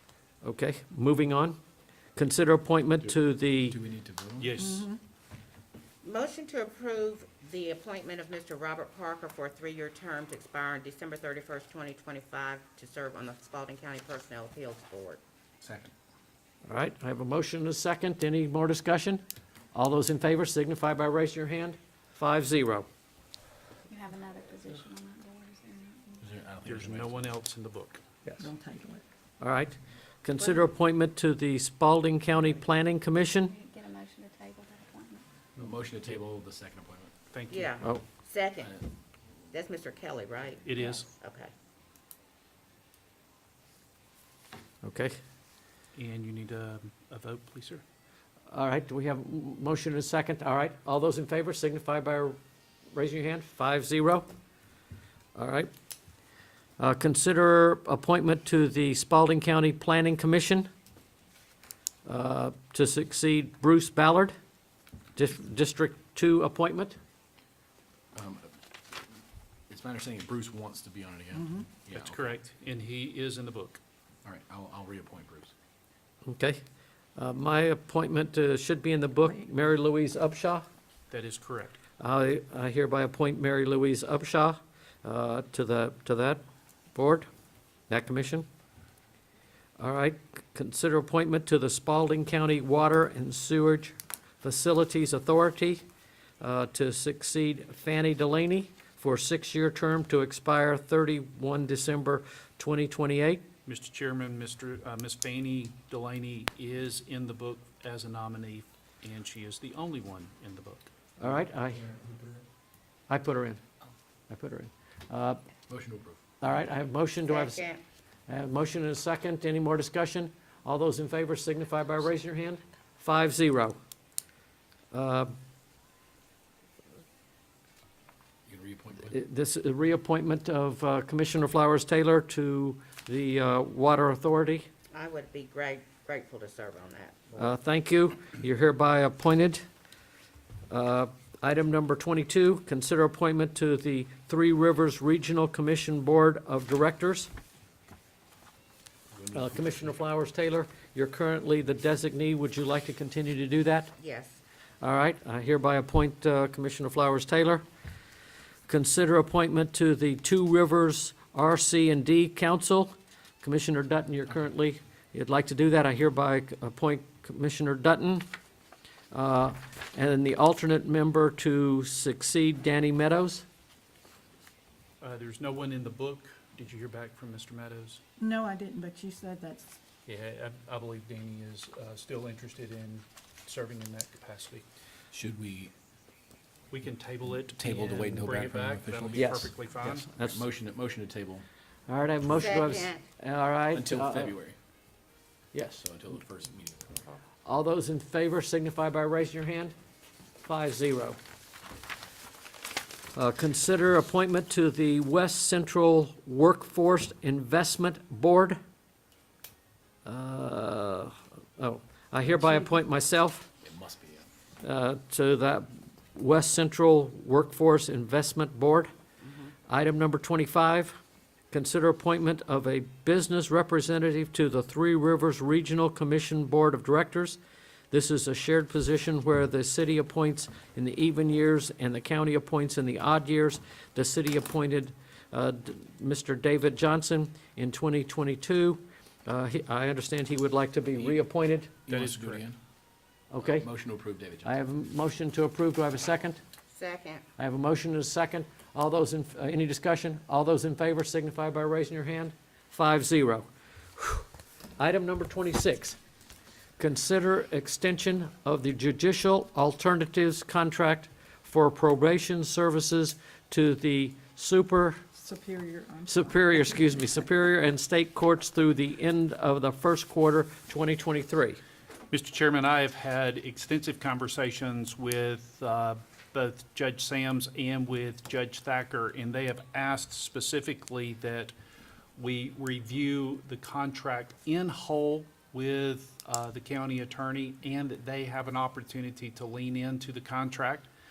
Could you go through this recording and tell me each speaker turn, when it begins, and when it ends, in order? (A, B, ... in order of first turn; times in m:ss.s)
0:00.4-0:01.6 A
0:02.2-0:03.8 A
0:03.7-0:04.6 B
0:04.4-0:04.9 C
0:06.0-0:15.2 D
0:15.6-0:15.9 B
0:16.7-0:19.2 A
0:19.7-0:22.9 A
0:23.9-0:26.3 E
0:26.2-0:27.4 B
0:26.6-0:28.0 C
0:28.4-0:29.0 F
0:29.4-0:33.5 A
0:30.4-0:30.7 D
0:33.4-0:35.3 E
0:35.6-0:37.2 B
0:37.3-0:37.8 C
0:37.5-0:38.8 D
0:39.5-0:41.5 D
0:40.6-0:41.0 C
0:44.8-0:45.2 A
0:46.0-0:47.8 C
0:48.5-0:52.4 A
0:52.9-0:54.3 A
0:55.4-0:55.7 A
0:56.8-1:00.7 A
1:02.1-1:04.4 A
1:05.2-1:07.0 A
1:08.2-1:08.6 B
1:09.7-1:12.4 B
1:11.9-1:13.8 C
1:14.2-1:15.5 B
1:16.3-1:16.6 A
1:17.2-1:20.7 A
1:21.1-1:21.8 C
1:22.0-1:26.4 A
1:26.9-1:27.3 A
1:27.9-1:28.5 A
1:29.8-1:35.8 A
1:36.4-1:43.4 A
1:43.7-1:50.9 C
1:51.2-1:51.9 A
1:51.9-1:52.4 B
1:53.1-1:53.6 A
1:54.3-1:55.4 A
1:55.7-1:56.2 B
1:56.4-1:57.6 A
1:57.2-1:57.8 D
1:58.3-2:03.8 A
2:04.9-2:05.3 A
2:08.5-2:09.2 B
2:09.1-2:14.7 A
2:14.9-2:17.6 D
2:17.4-2:19.6 A
2:20.7-2:27.3 A
2:29.1-2:30.0 B
2:29.3-2:34.0 A
2:34.0-2:34.4 D
2:34.8-2:37.6 A
2:38.7-2:48.3 A
2:49.1-2:53.4 A
2:55.0-2:58.0 C
2:58.2-2:59.7 F
3:00.1-3:04.6 C
3:05.1-3:05.7 B
3:06.7-3:10.2 C
3:07.5-3:11.5 B
3:09.1-3:10.4 A
3:11.9-3:14.3 A
3:12.3-3:13.0 D
3:13.7-3:14.6 B
3:15.5-3:15.8 A
3:15.8-3:17.1 B
3:17.4-3:19.8 A
3:20.4-3:21.2 A
3:23.1-3:28.6 A
3:30.0-3:33.5 A
3:33.6-3:34.3 B
3:34.6-3:38.9 A
3:39.7-3:41.0 A
3:41.5-3:47.4 A
3:47.9-4:01.8 A
4:01.9-4:02.6 B
4:01.9-4:02.5 C
4:03.3-4:03.7 A
4:03.4-4:04.6 B
4:04.4-4:06.4 A
4:06.7-4:07.2 D
4:07.4-4:14.3 A
4:14.8-4:16.0 A
4:16.8-4:25.0 A
4:25.2-4:26.4 F
4:26.1-4:31.6 A
4:32.1-4:41.5 C
4:42.2-4:50.9 C